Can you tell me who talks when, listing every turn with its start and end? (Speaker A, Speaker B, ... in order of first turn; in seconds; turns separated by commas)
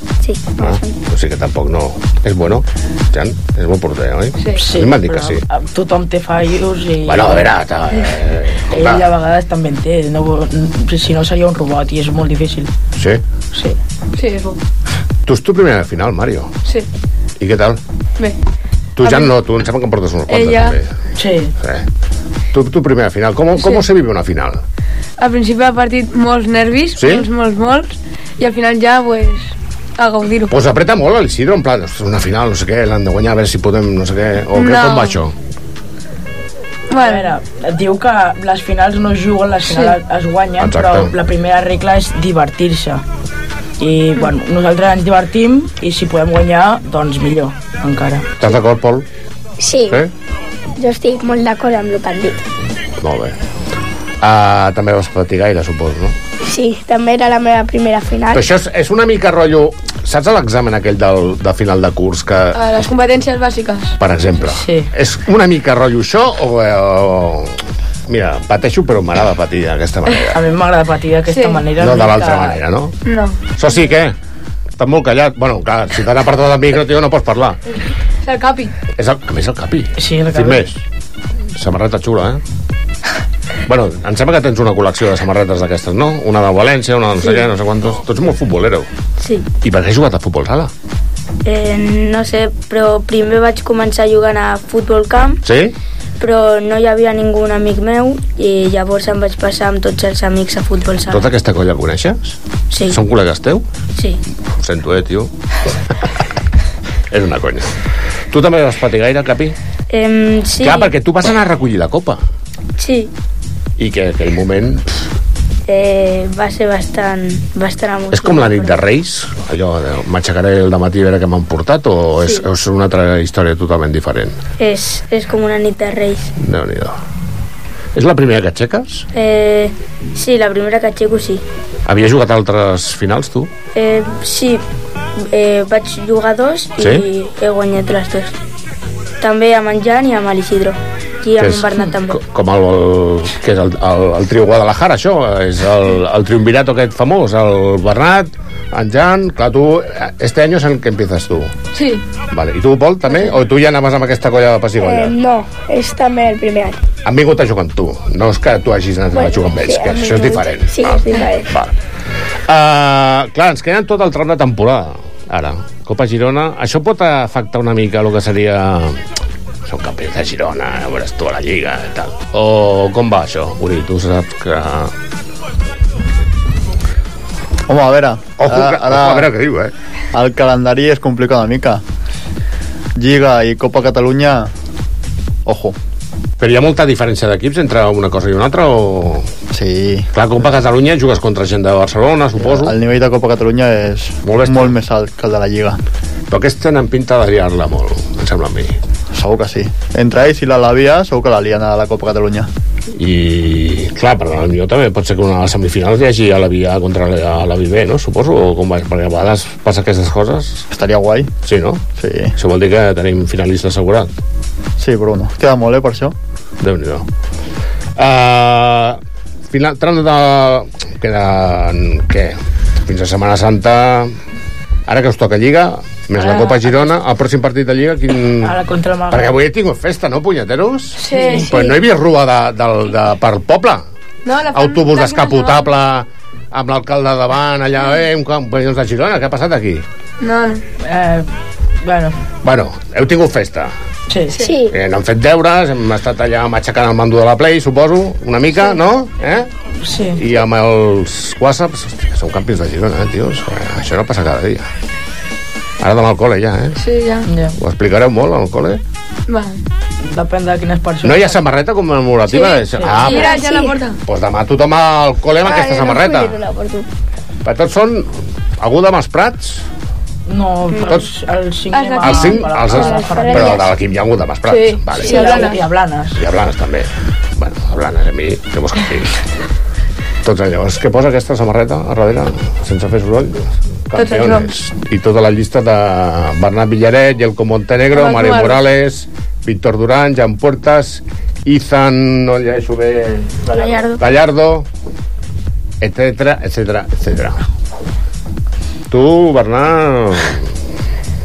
Speaker A: 0.2-0.9, Speaker B: 0.6-5.4, Speaker C: 4.6-7.5, Speaker B: 7.0-9.1, Speaker C: 8.7-12.7, Speaker B: 13.0-13.2, Speaker D: 14.2-14.6, Speaker B: 15.3-16.5, Speaker B: 17.4-17.8, Speaker B: 19.0-20.9, Speaker D: 19.0-19.3, Speaker D: 20.3-20.8, Speaker C: 21.2-21.5, Speaker B: 21.6-21.9, Speaker B: 22.5-24.6, Speaker D: 25.2-30.5, Speaker B: 27.0-27.3, Speaker B: 30.5-35.3, Speaker D: 34.6-35.2, Speaker D: 36.9-37.3, Speaker C: 36.9-43.0, Speaker D: 39.7-40.0, Speaker B: 40.6-41.1, Speaker C: 43.8-48.3, Speaker B: 48.4-49.1, Speaker E: 49.6-50.0, Speaker E: 50.8-52.4, Speaker B: 53.0-53.4, Speaker B: 54.2-56.2, Speaker E: 56.4-58.4, Speaker B: 58.3-62.8, Speaker D: 62.5-64.0, Speaker B: 64.0-67.5, Speaker C: 64.5-64.9, Speaker B: 68.1-70.4, Speaker C: 70.3-72.6, Speaker D: 71.3-71.6, Speaker B: 71.8-73.0, Speaker D: 73.1-73.5, Speaker B: 73.5-74.2, Speaker B: 74.8-77.6, Speaker D: 78.2-78.7, Speaker B: 79.0-80.8, Speaker C: 80.0-80.7, Speaker B: 81.6-82.4, Speaker B: 83.7-88.9, Speaker A: 89.2-89.5, Speaker B: 89.6-90.7, Speaker A: 91.5-95.4, Speaker B: 95.4-95.7, Speaker A: 96.2-101.2, Speaker B: 101.1-103.7, Speaker A: 102.7-103.0, Speaker B: 104.6-105.3, Speaker B: 107.1-107.8, Speaker B: 108.3-109.5, Speaker A: 109.9-110.9, Speaker B: 110.6-112.2, Speaker A: 112.8-113.1, Speaker B: 113.8-114.9, Speaker A: 115.7-118.8, Speaker B: 118.1-124.4, Speaker A: 124.6-126.3, Speaker B: 126.4-127.0, Speaker B: 128.0-129.1, Speaker A: 129.1-131.4, Speaker B: 131.9-133.5, Speaker A: 133.8-134.6, Speaker A: 135.3-138.3, Speaker B: 136.8-137.1, Speaker A: 139.2-142.2, Speaker B: 141.4-151.5, Speaker D: 151.7-152.1, Speaker B: 152.3-155.2, Speaker E: 154.8-156.8, Speaker B: 157.1-161.7, Speaker E: 159.1-161.5, Speaker B: 162.5-169.0, Speaker B: 169.7-174.9, Speaker F: 177.7-179.3, Speaker B: 178.4-179.7, Speaker F: 180.1-181.8, Speaker F: 183.0-184.5, Speaker F: 185.5-185.8, Speaker B: 186.4-189.3, Speaker F: 189.5-190.1, Speaker B: 190.1-192.8, Speaker F: 192.4-195.8, Speaker B: 194.2-194.8, Speaker B: 196.3-198.7, Speaker F: 199.1-202.5, Speaker B: 203.0-210.7, Speaker F: 210.7-211.3, Speaker B: 211.4-211.8, Speaker F: 212.0-212.3, Speaker B: 212.4-214.1, Speaker F: 214.8-216.1, Speaker B: 216.6-217.1, Speaker B: 218.0-219.0, Speaker B: 219.5-224.1, Speaker B: 224.9-228.6, Speaker C: 226.2-226.6, Speaker C: 228.4-229.3, Speaker B: 229.1-233.8, Speaker D: 231.0-231.6, Speaker C: 231.2-231.5, Speaker D: 234.2-235.7, Speaker B: 234.5-239.8, Speaker D: 240.2-240.6, Speaker C: 240.8-241.3, Speaker C: 241.8-242.2, Speaker B: 242.4-243.7, Speaker C: 244.1-244.4, Speaker E: 244.4-244.7, Speaker B: 244.7-249.5, Speaker C: 249.8-250.2, Speaker B: 250.2-254.7, Speaker B: 255.8-256.8, Speaker D: 256.8-257.3, Speaker B: 257.6-258.8, Speaker D: 259.3-259.6, Speaker C: 260.1-261.4, Speaker B: 261.0-263.4, Speaker D: 262.3-264.0, Speaker E: 263.1-263.7, Speaker B: 264.1-266.4, Speaker E: 265.4-266.9, Speaker B: 267.4-269.6, Speaker C: 270.3-273.5, Speaker D: 271.7-273.3, Speaker B: 272.0-275.4, Speaker E: 272.9-273.6, Speaker D: 274.5-275.6, Speaker C: 275.0-276.2, Speaker B: 276.1-279.2, Speaker B: 280.2-294.7, Speaker D: 284.0-284.5, Speaker D: 287.9-288.6, Speaker B: 295.8-297.4, Speaker B: 298.9-300.5